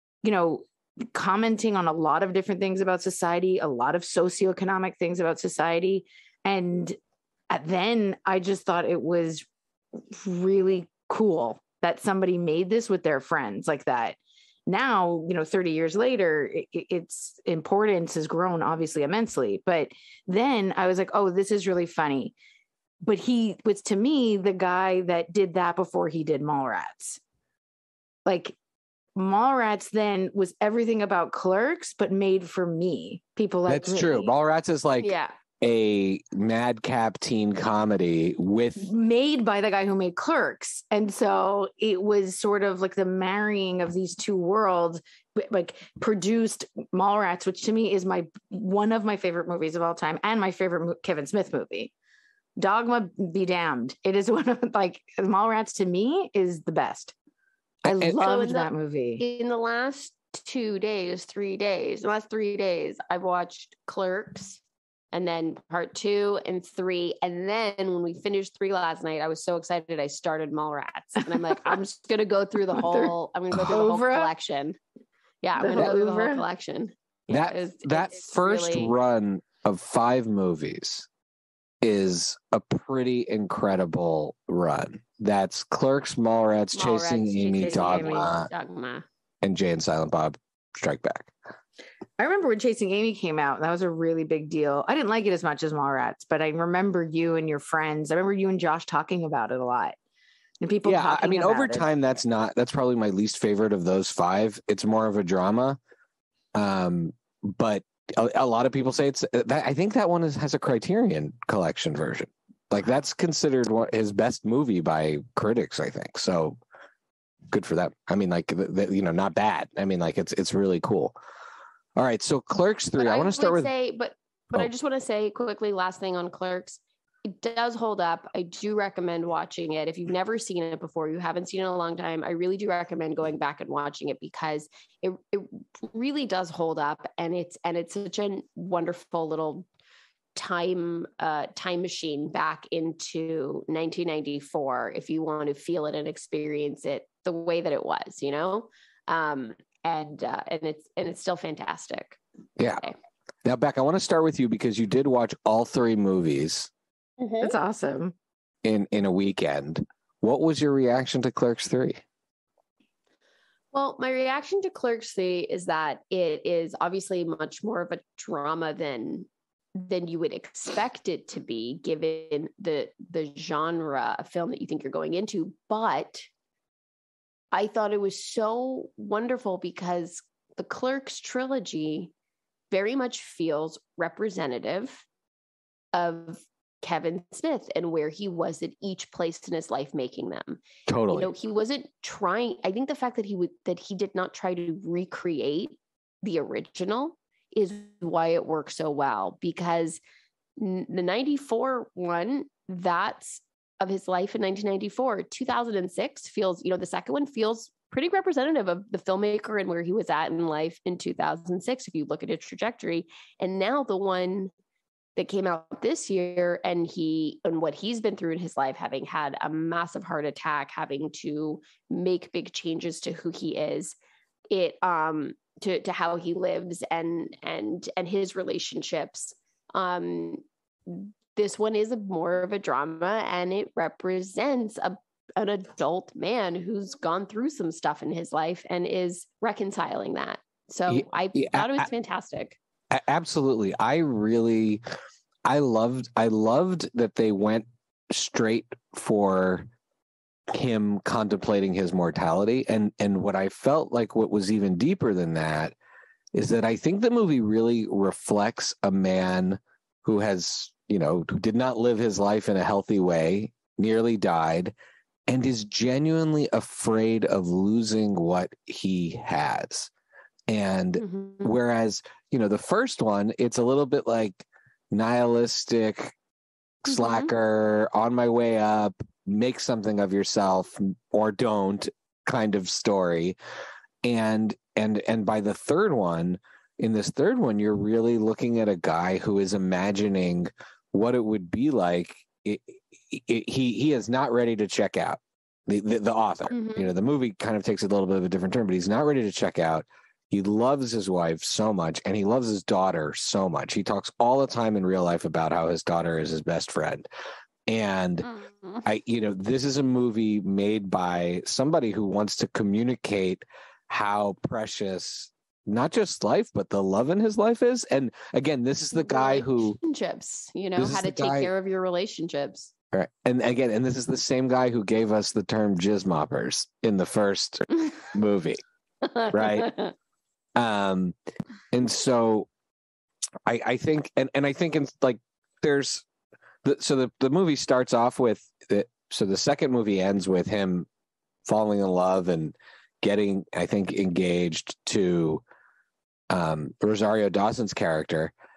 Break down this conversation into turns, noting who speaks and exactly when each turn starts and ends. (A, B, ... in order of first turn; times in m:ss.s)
0:00.2-0:07.0 A
0:07.5-0:09.5 A
0:10.1-0:22.4 A
0:23.0-0:27.2 A
0:28.3-0:28.6 A
0:29.2-0:34.3 A
0:33.7-0:38.9 B
0:35.0-0:35.3 C
0:38.8-0:51.9 A
0:52.6-0:57.1 A
0:57.8-0:59.2 A
0:57.8-0:58.2 B
0:58.1-1:04.6 C
1:05.1-1:14.8 C
1:12.8-1:13.1 A
1:13.7-1:14.3 A
1:15.4-1:19.0 C
1:15.6-1:16.4 A
1:17.3-1:21.1 B
1:21.8-1:28.5 B
1:26.7-1:29.1 C
1:27.6-1:28.3 A
1:29.4-1:31.3 B
1:32.2-1:40.0 A
1:40.6-1:41.9 A
1:40.8-1:45.8 B
1:46.6-1:56.6 B
1:57.5-2:01.2 B
2:02.0-2:03.7 B
2:03.0-2:19.7 C
2:20.4-2:32.2 C
2:32.6-2:32.8 B
2:33.4-2:36.7 B
2:37.2-2:37.5 C
2:37.4-2:38.2 A
2:38.6-2:42.0 B
2:43.7-2:56.3 C
2:57.5-3:02.1 C
3:02.7-3:05.0 C
3:05.9-3:20.0 C
3:10.9-3:11.3 B
3:20.6-3:34.5 C
3:35.2-3:43.9 C
3:44.5-4:02.6 C
4:00.9-4:01.9 B
4:02.9-4:04.8 B
4:05.5-4:09.7 B
4:10.5-4:15.8 B
4:16.3-4:24.7 B
4:25.3-4:29.9 B
4:30.5-4:36.1 B
4:31.0-4:31.5 C
4:36.8-4:43.4 B
4:36.9-4:37.3 C
4:44.0-5:07.1 B
4:56.5-4:56.9 C
5:07.7-5:08.3 B
5:08.2-5:08.8 C
5:08.8-5:19.8 B
5:18.9-5:22.7 C
5:20.8-5:21.5 B
5:22.9-5:28.6 B
5:29.0-5:29.9 C
5:29.3-5:29.7 B
5:30.6-5:31.2 B
5:31.7-5:32.5 B
5:33.5-5:36.0 B
5:36.6-5:40.9 B
5:41.4-5:45.4 B
5:46.3-5:48.3 B